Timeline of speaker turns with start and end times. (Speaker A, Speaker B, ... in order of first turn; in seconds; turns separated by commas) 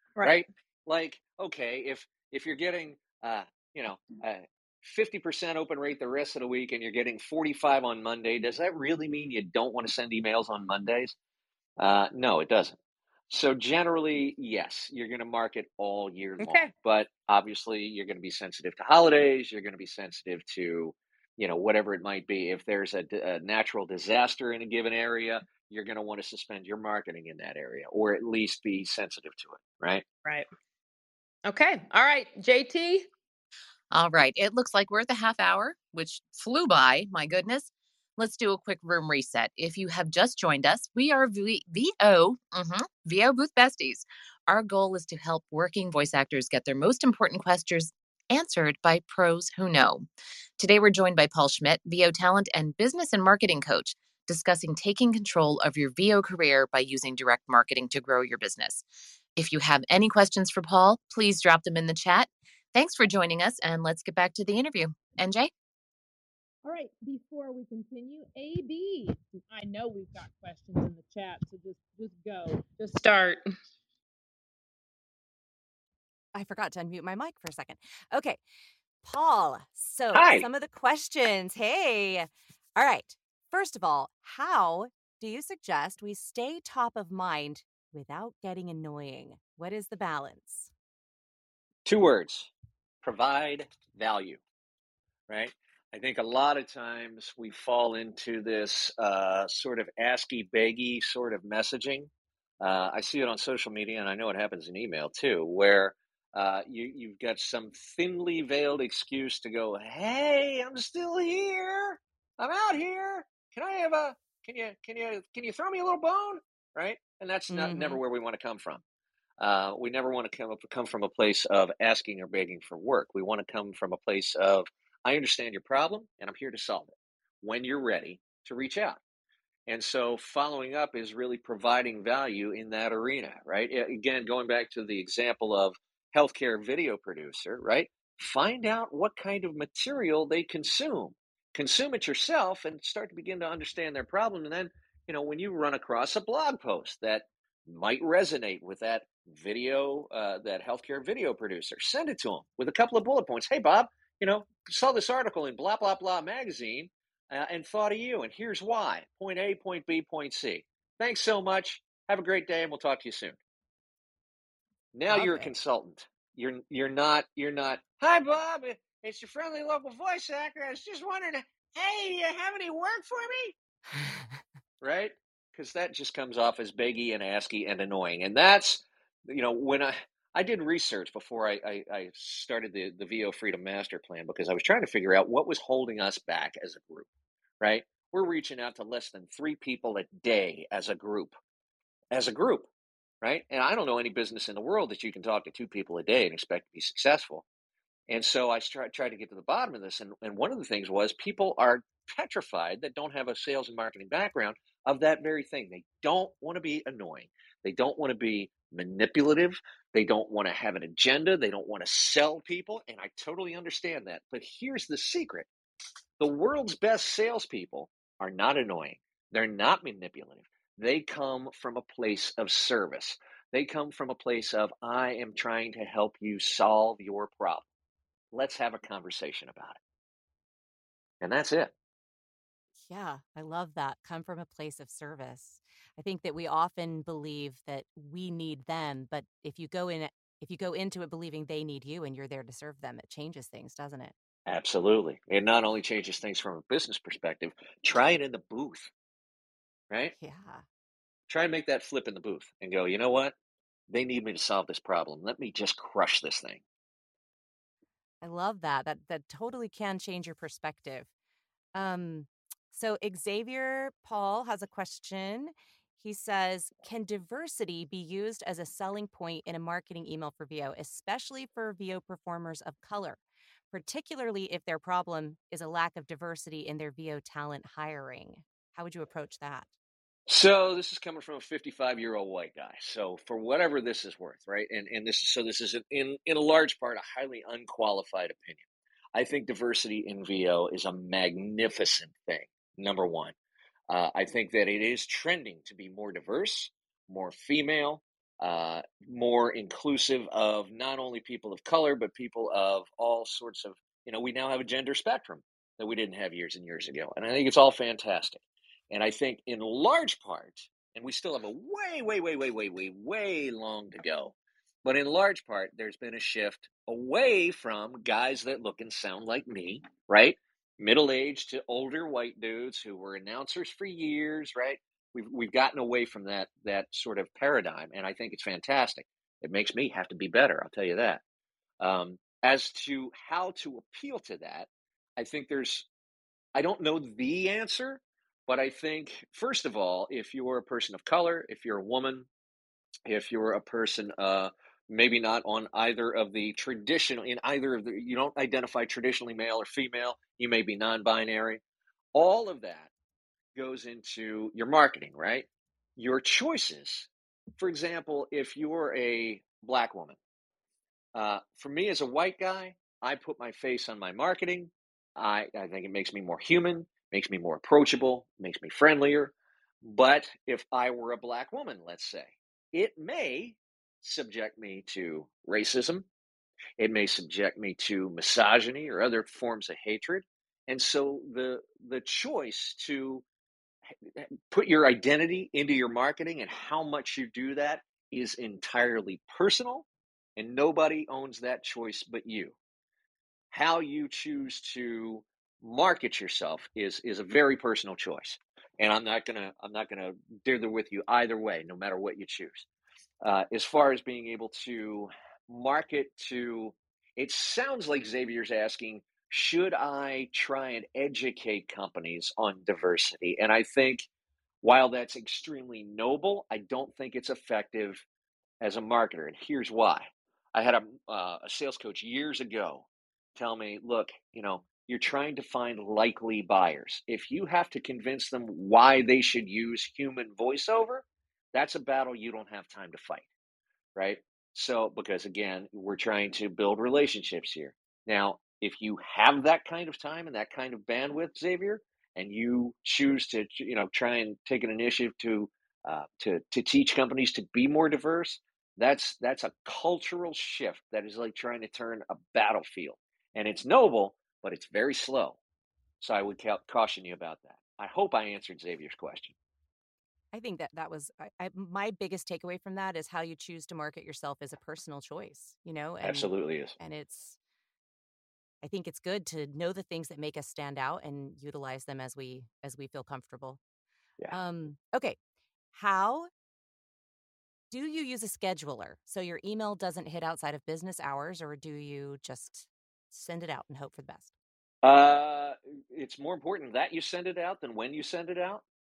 Speaker A: 0.1-0.4, Speaker B: 0.2-11.2, Speaker B: 11.8-12.8, Speaker B: 13.3-30.0, Speaker A: 16.4-16.7, Speaker A: 31.5-33.1, Speaker C: 33.9-50.1, Speaker C: 50.6-58.8, Speaker C: 59.4-65.5, Speaker A: 66.6-73.4, Speaker D: 76.3-78.4, Speaker D: 79.0-90.7, Speaker B: 80.1-80.5, Speaker B: 91.8-92.5, Speaker B: 93.0-94.4, Speaker B: 95.3-102.1, Speaker B: 102.6-118.8, Speaker D: 117.5-118.0, Speaker B: 119.4-126.9, Speaker B: 127.4-129.0, Speaker B: 129.7-163.4, Speaker B: 164.9-173.5, Speaker D: 165.1-165.5, Speaker D: 173.9-174.4, Speaker B: 174.8-187.1, Speaker B: 187.6-191.3, Speaker B: 192.1-192.7, Speaker B: 193.2-197.4, Speaker B: 198.1-215.5, Speaker B: 216.2-227.7, Speaker B: 228.3-229.8, Speaker B: 231.2-231.7, Speaker D: 232.8-244.1, Speaker B: 244.5-248.9, Speaker D: 250.2-250.6, Speaker B: 251.3-253.3, Speaker B: 253.9-256.6, Speaker D: 258.2-261.1, Speaker D: 261.7-273.2, Speaker D: 273.7-279.7, Speaker B: 280.3-288.6, Speaker B: 289.1-293.3, Speaker B: 293.9-331.2, Speaker B: 331.8-335.9, Speaker B: 336.5-342.3, Speaker B: 343.1-351.6, Speaker B: 352.1-352.9, Speaker B: 353.5-360.2, Speaker B: 361.1-376.1, Speaker B: 376.8-383.2, Speaker B: 384.1-389.9, Speaker B: 390.4-392.6, Speaker B: 393.5-402.6, Speaker B: 403.2-414.1, Speaker B: 414.6-418.0, Speaker B: 418.6-433.3, Speaker B: 433.9-455.4, Speaker B: 456.0-459.3, Speaker D: 460.3-467.4, Speaker B: 466.0-466.7, Speaker D: 468.6-473.6, Speaker D: 474.3-475.2, Speaker D: 475.7-476.3, Speaker D: 477.7-484.3, Speaker B: 484.8-488.6